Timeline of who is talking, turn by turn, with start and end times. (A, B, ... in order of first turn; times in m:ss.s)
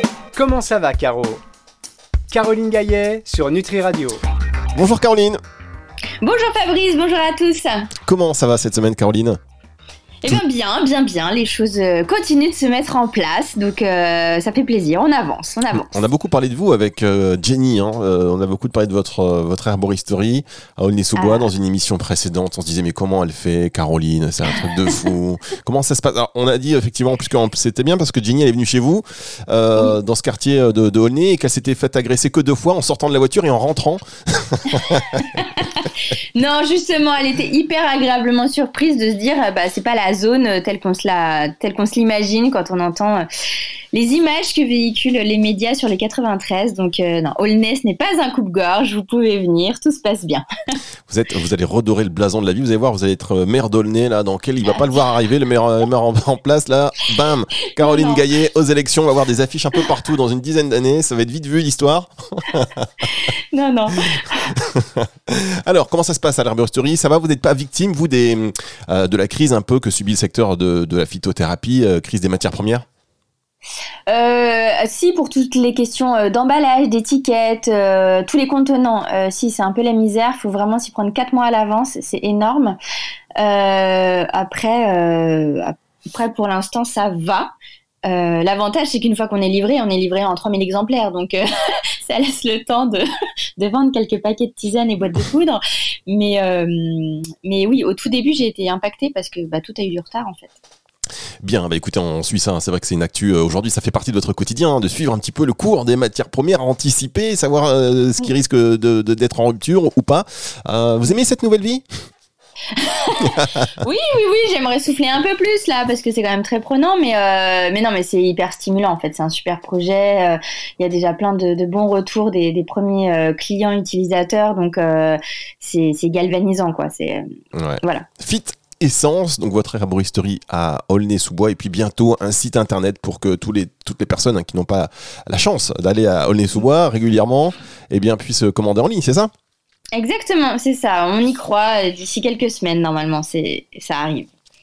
0:00.4-0:01.4 A
0:02.3-0:04.2 A
0:04.8-0:05.4 B
0:06.2-0:07.9 C
0:08.0-0:09.4 B
0:10.2-0:15.9 C
0:15.8-0:35.2 B
0:21.2-0:21.5 C
0:35.1-0:43.3 C
0:43.9-0:50.8 C
0:51.1-1:02.9 B
0:57.8-0:58.2 C
1:03.1-1:04.5 C
1:04.6-1:12.8 B
1:14.1-1:22.8 C
1:23.4-1:27.5 C
1:28.1-1:31.4 C
1:32.0-1:33.0 C
1:33.6-1:40.6 C
1:41.4-1:51.8 B
1:52.7-2:07.2 C
2:07.6-2:19.3 B
2:07.8-2:08.1 C
2:19.9-2:24.3 C